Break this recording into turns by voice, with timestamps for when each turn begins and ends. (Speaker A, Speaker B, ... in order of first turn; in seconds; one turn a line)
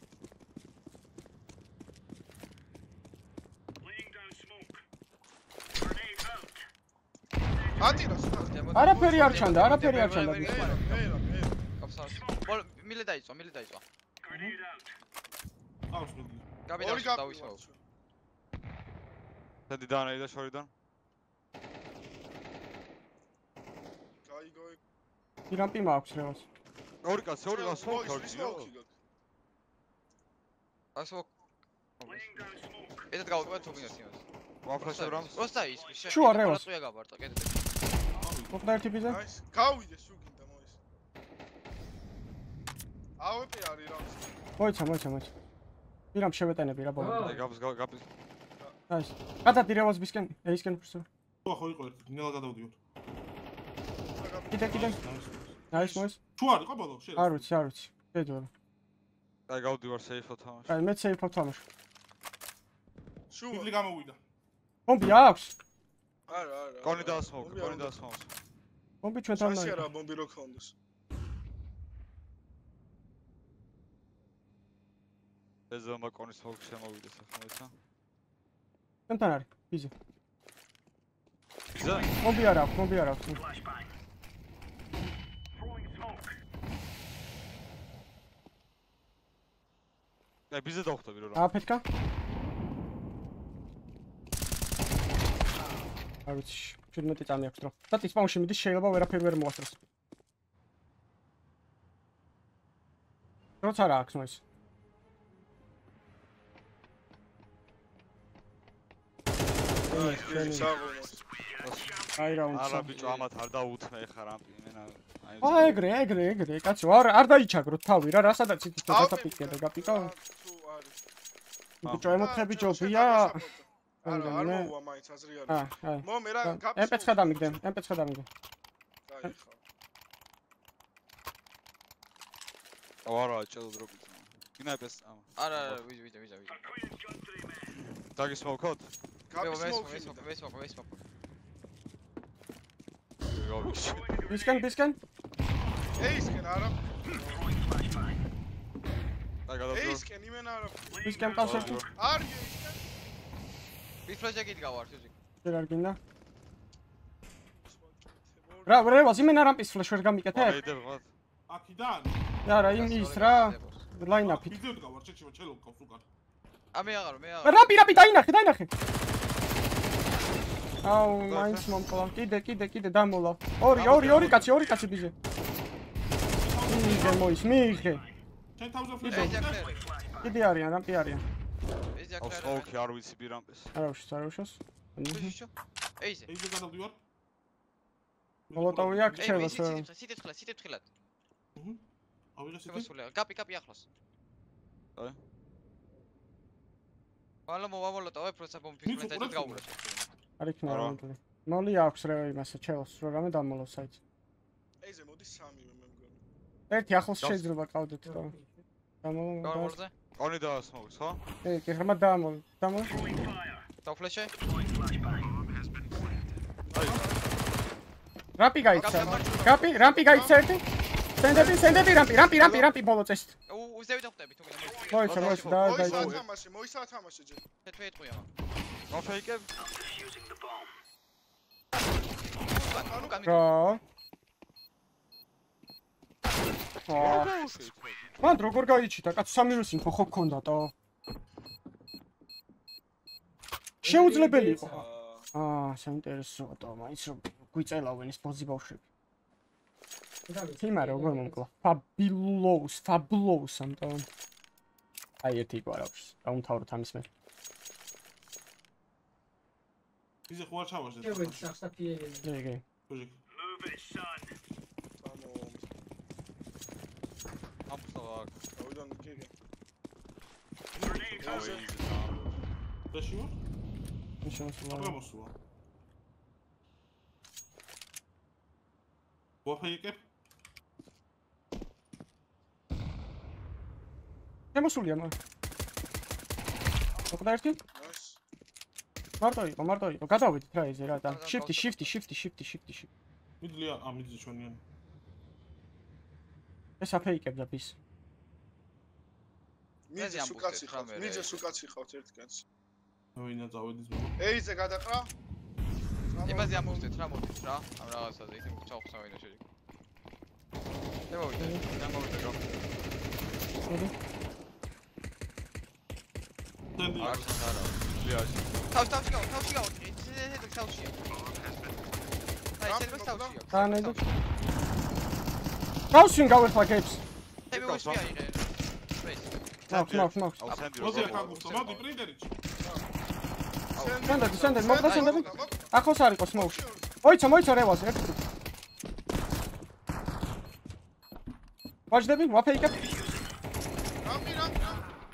Speaker A: 7.8-11.6
Speaker B: 8.3-11.1
Speaker C: 8.7-10.7
Speaker B: 11.8-13.8
Speaker D: 14.3-14.6
Speaker D: 15.9-16.4
Speaker B: 16.6-17.6
Speaker A: 16.8-17.8
Speaker E: 19.7-20.7
Speaker A: 24.2-24.8
Speaker C: 25.5-26.5
Speaker E: 27.0-28.7
Speaker A: 27.5-28.9
Speaker B: 30.9-31.3
Speaker B: 32.0-32.5
Speaker B: 33.1-34.2
Speaker A: 33.3-34.0
Speaker E: 34.6-35.5
Speaker B: 34.8-37.6
Speaker C: 36.1-36.7
Speaker D: 38.2-39.2
Speaker C: 38.5-39.2
Speaker A: 39.0-40.8
Speaker A: 43.2-44.4
Speaker C: 44.6-45.3
Speaker C: 46.1-47.4
Speaker F: 47.0-47.4
Speaker E: 47.1-48.0
Speaker C: 48.9-51.0
Speaker D: 51.4-52.8
Speaker A: 54.0-55.0
Speaker C: 54.5-55.0
Speaker D: 54.7-57.5
Speaker C: 55.7-56.2
Speaker C: 57.1-58.5
Speaker E: 59.5-60.8
Speaker C: 60.7-61.6
Speaker A: 63.3-63.7
Speaker D: 63.5-64.2
Speaker C: 64.9-65.5
Speaker A: 66.3-68.0
Speaker E: 66.8-68.3
Speaker C: 69.0-69.8
Speaker A: 69.3-70.7
Speaker E: 75.7-77.7
Speaker C: 79.1-79.9
Speaker E: 81.7-82.2
Speaker C: 82.2-83.4
Speaker E: 90.5-91.5
Speaker C: 91.3-91.8
Speaker C: 96.2-99.8
Speaker C: 103.6-104.4
Speaker C: 109.9-110.7
Speaker A: 109.9-111.2
Speaker E: 111.6-115.8
Speaker C: 112.2-112.9
Speaker B: 112.9-113.2
Speaker C: 115.4-120.1
Speaker A: 118.9-121.0
Speaker C: 121.8-123.4
Speaker E: 121.8-122.1
Speaker A: 122.0-127.6
Speaker C: 124.0-124.7
Speaker C: 125.5-128.3
Speaker A: 129.1-129.6
Speaker E: 133.1-135.8
Speaker B: 135.4-136.7
Speaker E: 138.1-138.9
Speaker A: 139.3-140.3
Speaker B: 139.4-141.0
Speaker E: 143.3-144.2
Speaker C: 144.2-145.0
Speaker A: 145.9-147.4
Speaker E: 149.5-150.0
Speaker A: 149.7-151.1
Speaker C: 151.0-151.8
Speaker E: 151.4-151.9
Speaker D: 151.4-151.8
Speaker A: 151.9-152.9
Speaker B: 154.1-155.1
Speaker C: 155.4-156.0
Speaker A: 157.6-159.3
Speaker C: 158.7-160.6
Speaker E: 160.3-161.1
Speaker D: 161.5-162.3
Speaker C: 162.4-164.6
Speaker B: 162.5-163.8
Speaker D: 164.2-166.0
Speaker B: 166.7-167.8
Speaker C: 167.4-168.7
Speaker C: 170.8-175.1
Speaker E: 171.3-171.7
Speaker E: 173.7-174.5
Speaker D: 176.3-177.4
Speaker C: 176.7-178.0
Speaker D: 178.6-179.7
Speaker C: 179.0-179.4
Speaker B: 179.1-179.8
Speaker C: 180.2-181.2
Speaker B: 181.9-182.7
Speaker E: 182.2-183.7
Speaker C: 183.7-185.3
Speaker B: 185.1-186.3
Speaker D: 186.3-187.0
Speaker D: 188.5-189.7
Speaker C: 188.5-189.8
Speaker B: 189.2-190.8
Speaker D: 191.5-191.8
Speaker D: 192.3-192.9
Speaker B: 192.7-193.8
Speaker B: 197.4-200.1
Speaker D: 198.8-199.7
Speaker C: 200.4-204.0
Speaker E: 200.7-201.0
Speaker A: 204.8-206.2
Speaker C: 206.7-208.3
Speaker F: 208.1-208.5
Speaker C: 209.0-209.8
Speaker B: 209.4-209.9
Speaker E: 210.2-211.2
Speaker C: 211.4-212.9
Speaker B: 213.8-214.3
Speaker A: 216.7-217.5
Speaker D: 216.7-217.1
Speaker C: 218.4-220.6
Speaker A: 218.7-220.4
Speaker B: 218.7-219.6
Speaker C: 221.2-223.3
Speaker A: 221.3-222.7
Speaker B: 223.5-225.4
Speaker C: 224.9-226.2
Speaker E: 225.0-226.2
Speaker A: 225.4-227.4
Speaker B: 227.6-228.3
Speaker E: 228.9-229.5
Speaker B: 232.4-233.5
Speaker A: 232.6-233.3
Speaker C: 233.2-233.8
Speaker C: 236.9-237.3
Speaker E: 236.9-238.1
Speaker B: 237.1-237.7
Speaker C: 238.2-240.7
Speaker F: 243.8-244.8
Speaker C: 243.8-248.8
Speaker A: 244.6-245.3
Speaker F: 250.3-251.4
Speaker C: 250.6-254.1
Speaker C: 255.2-257.1
Speaker D: 260.3-261.5
Speaker F: 261.0-262.3
Speaker C: 262.2-262.6
Speaker D: 262.9-263.2
Speaker A: 265.0-265.6
Speaker E: 267.7-268.4
Speaker A: 268.6-269.3
Speaker D: 270.7-271.1
Speaker E: 270.8-272.4
Speaker A: 271.2-271.7
Speaker D: 272.9-273.3
Speaker C: 274.2-275.0
Speaker D: 274.7-275.3
Speaker D: 279.4-280.0
Speaker C: 284.5-285.1
Speaker C: 287.1-287.6
Speaker A: 287.7-288.2
Speaker C: 289.2-292.9
Speaker B: 290.9-291.9
Speaker D: 293.4-294.6
Speaker C: 296.8-297.7
Speaker A: 299.9-302.4
Speaker B: 300.0-301.4
Speaker D: 303.1-304.2
Speaker A: 304.2-305.1
Speaker A: 306.1-307.0
Speaker B: 306.2-309.4
Speaker B: 311.1-311.6
Speaker E: 311.7-312.7
Speaker C: 313.6-313.9
Speaker D: 316.8-317.2
Speaker E: 317.0-318.6
Speaker B: 317.0-317.5
Speaker B: 318.7-321.0
Speaker B: 322.6-324.2
Speaker A: 322.6-323.4
Speaker C: 323.5-324.0
Speaker C: 325.9-327.0
Speaker B: 327.5-329.4
Speaker E: 327.5-328.1
Speaker E: 329.7-331.4
Speaker C: 329.7-330.4
Speaker B: 330.4-331.9
Speaker D: 330.8-332.3
Speaker A: 332.6-332.8
Speaker B: 333.7-335.5
Speaker A: 333.7-337.0
Speaker C: 334.0-338.2
Speaker C: 341.9-342.9
Speaker A: 344.0-344.9